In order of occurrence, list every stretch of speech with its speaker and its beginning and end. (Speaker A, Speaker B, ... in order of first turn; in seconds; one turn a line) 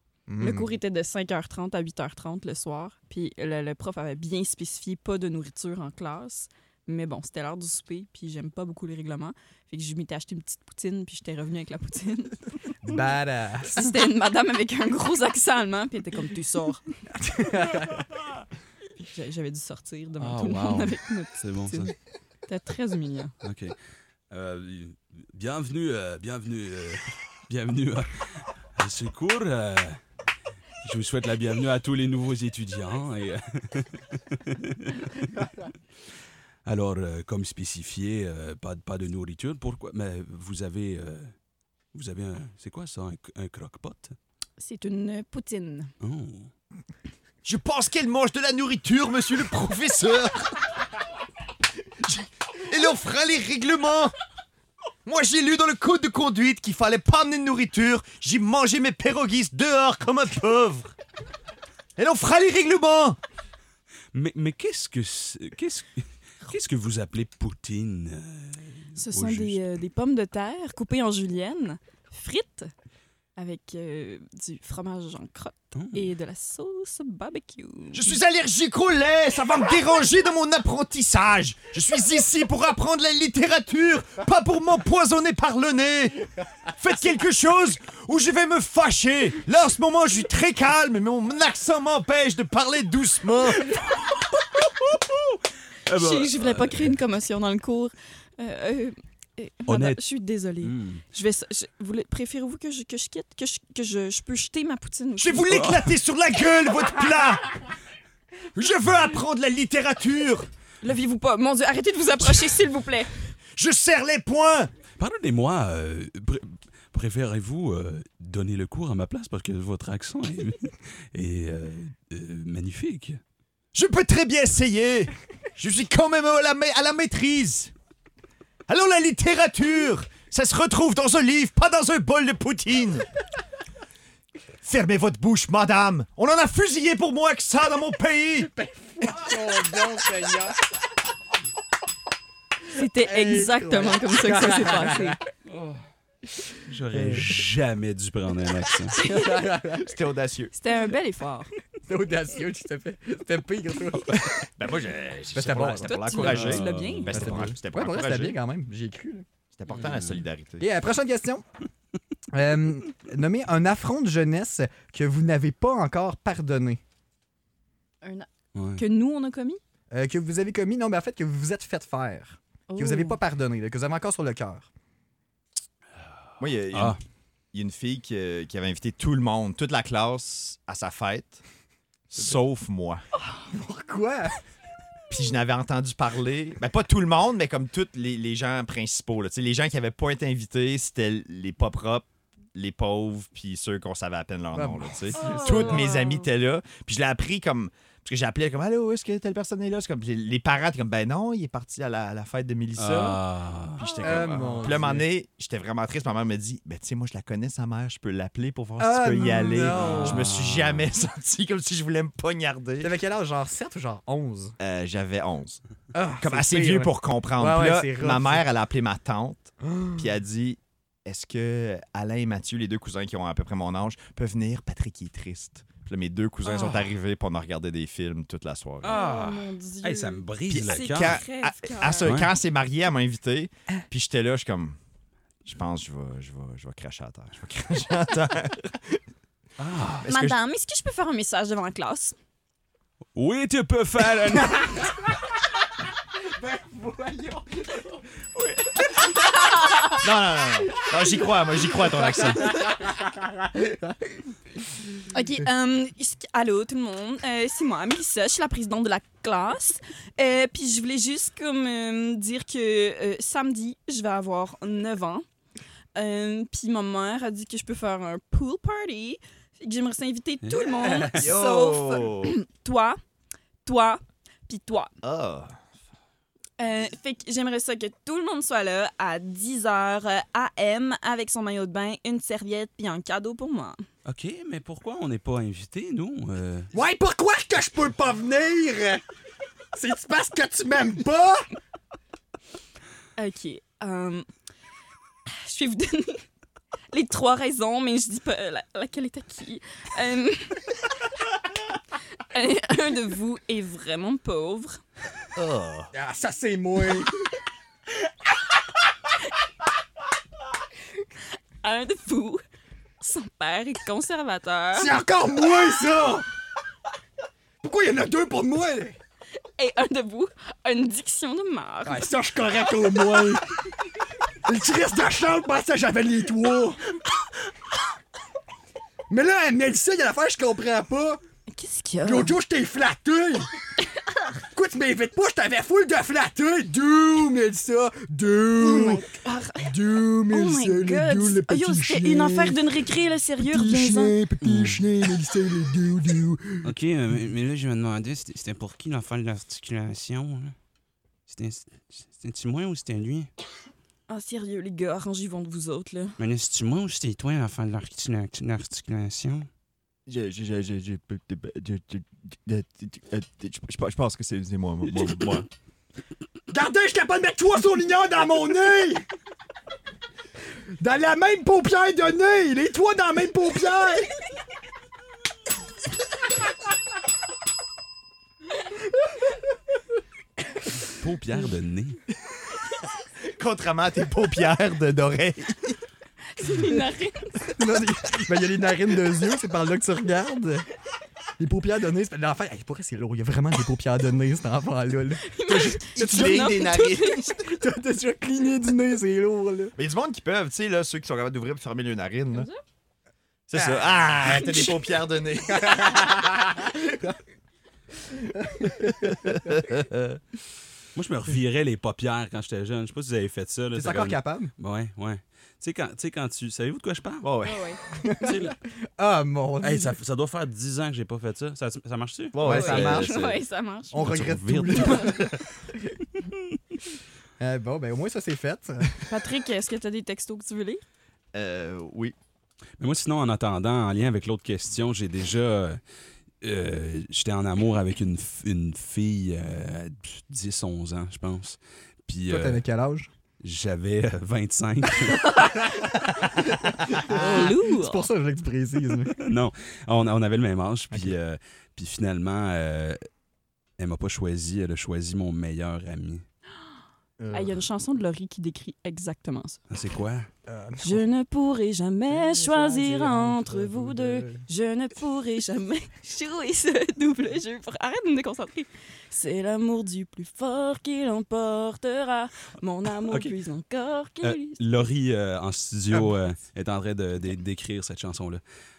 Speaker A: 0.3-0.7
Speaker B: 0.4-12.5
Speaker A: 12.8-13.8
Speaker B: 13.6-16.8
Speaker A: 17.1-18.1
Speaker B: 19.0-21.9
Speaker C: 20.2-21.9
Speaker B: 22.5-23.3
Speaker C: 23.4-23.8
Speaker C: 24.3-30.0
Speaker C: 30.8-35.5
Speaker C: 36.6-41.3
Speaker C: 41.9-44.1
Speaker B: 44.6-45.9
Speaker C: 46.0-46.5
Speaker D: 47.4-50.7
Speaker D: 52.0-54.1
Speaker D: 55.0-60.9
Speaker D: 62.0-63.2
Speaker C: 64.1-69.6
Speaker B: 69.0-72.7
Speaker B: 73.3-78.2
Speaker C: 75.7-76.1
Speaker D: 77.9-93.8
Speaker C: 94.4-97.0
Speaker B: 95.9-105.6
Speaker C: 99.7-100.0
Speaker C: 100.6-101.0
Speaker D: 105.2-107.5
Speaker C: 105.5-105.9
Speaker D: 108.5-110.5
Speaker B: 110.8-113.1
Speaker D: 113.5-114.7
Speaker C: 115.0-123.2
Speaker D: 123.7-127.7
Speaker D: 128.7-133.1
Speaker D: 134.6-138.5
Speaker A: 138.5-140.7
Speaker B: 142.7-145.2
Speaker A: 143.0-145.2
Speaker C: 145.5-145.8
Speaker C: 146.7-149.0
Speaker A: 146.9-147.3
Speaker B: 148.9-149.5
Speaker A: 149.0-149.9
Speaker D: 149.5-150.5
Speaker B: 150.5-151.5
Speaker A: 151.9-154.4
Speaker D: 154.6-158.3
Speaker A: 155.3-156.2
Speaker B: 155.8-157.3
Speaker C: 156.1-157.3
Speaker A: 157.1-159.2
Speaker D: 159.5-160.6
Speaker C: 159.8-160.2
Speaker A: 160.6-161.4
Speaker A: 162.3-166.8
Speaker B: 168.0-169.6
Speaker C: 168.5-168.8
Speaker A: 169.9-174.7
Speaker B: 172.7-173.2
Speaker D: 176.4-177.0
Speaker C: 176.7-177.0
Speaker D: 177.5-181.4
Speaker D: 182.1-183.0
Speaker A: 183.5-184.4
Speaker D: 185.1-203.2
Speaker A: 194.5-195.8
Speaker B: 195.1-196.3
Speaker C: 202.8-203.8
Speaker D: 203.8-212.9
Speaker B: 203.8-204.3
Speaker A: 204.0-205.1
Speaker A: 208.8-210.3
Speaker C: 209.7-210.9
Speaker A: 212.8-214.6
Speaker D: 214.6-215.6
Speaker A: 215.9-218.4
Speaker D: 216.2-229.0
Speaker A: 219.6-220.1
Speaker C: 226.4-226.9
Speaker C: 228.8-231.2
Speaker B: 228.8-232.2
Speaker D: 230.5-234.8
Speaker C: 232.0-232.3
Speaker D: 235.4-239.0
Speaker C: 239.6-240.1
Speaker D: 240.0-240.4
Speaker B: 240.0-242.1
Speaker C: 243.1-245.0
Speaker A: 246.2-247.8
Speaker B: 248.7-250.0
Speaker D: 249.9-252.6
Speaker A: 252.4-253.9
Speaker B: 255.1-265.2
Speaker B: 265.9-273.0
Speaker C: 270.4-271.2
Speaker D: 271.1-272.4
Speaker B: 273.6-274.9
Speaker D: 275.0-275.6
Speaker B: 276.6-283.8
Speaker C: 284.0-286.7
Speaker A: 286.7-289.0
Speaker A: 289.7-291.5
Speaker B: 293.2-294.2
Speaker B: 295.2-296.2
Speaker B: 296.9-300.8
Speaker B: 302.2-304.8
Speaker D: 305.4-305.9
Speaker A: 305.9-307.2
Speaker B: 311.6-312.4
Speaker B: 313.0-314.9
Speaker A: 314.7-316.2
Speaker A: 317.6-319.0
Speaker B: 319.6-322.1
Speaker A: 321.8-323.6
Speaker A: 324.4-327.0
Speaker A: 329.1-331.2
Speaker B: 331.5-332.4
Speaker A: 332.0-333.5
Speaker A: 334.5-339.0
Speaker B: 338.6-339.7
Speaker A: 339.6-342.6
Speaker B: 340.3-344.2
Speaker A: 343.4-346.7
Speaker C: 344.4-344.8
Speaker C: 346.6-350.5
Speaker C: 351.3-353.3
Speaker B: 354.1-356.1
Speaker C: 356.2-359.5
Speaker D: 360.1-365.5
Speaker A: 366.5-369.1
Speaker A: 370.8-374.1
Speaker C: 380.9-382.0
Speaker D: 383.2-385.8
Speaker B: 386.4-387.4
Speaker A: 387.4-390.7
Speaker A: 391.4-396.6
Speaker B: 395.2-397.5
Speaker D: 396.0-397.3
Speaker A: 397.4-399.7
Speaker D: 399.8-402.5
Speaker B: 402.3-402.6
Speaker D: 403.5-406.2
Speaker A: 403.5-404.7
Speaker A: 405.5-407.1
Speaker A: 408.2-409.4
Speaker D: 408.8-410.2
Speaker C: 410.9-417.3
Speaker A: 413.7-414.5
Speaker D: 417.2-417.7
Speaker B: 417.4-417.8
Speaker A: 417.9-419.9
Speaker C: 418.2-418.5
Speaker C: 419.6-423.4
Speaker D: 422.3-423.2
Speaker A: 422.4-423.2
Speaker B: 422.5-424.1
Speaker A: 423.9-425.6
Speaker C: 424.0-425.2
Speaker B: 424.7-425.1
Speaker A: 427.4-429.0
Speaker B: 429.1-430.8
Speaker D: 431.3-432.1
Speaker C: 432.8-435.8
Speaker C: 436.4-442.6
Speaker A: 442.3-443.1
Speaker C: 443.4-445.3
Speaker A: 445.8-449.2
Speaker B: 447.1-448.1
Speaker C: 449.1-453.0
Speaker A: 450.9-451.1
Speaker C: 453.8-456.2
Speaker A: 457.2-457.6
Speaker B: 457.3-459.6
Speaker C: 459.7-460.3
Speaker A: 460.5-461.0
Speaker B: 460.8-474.6
Speaker A: 462.1-464.4
Speaker C: 473.1-473.3
Speaker C: 474.2-478.4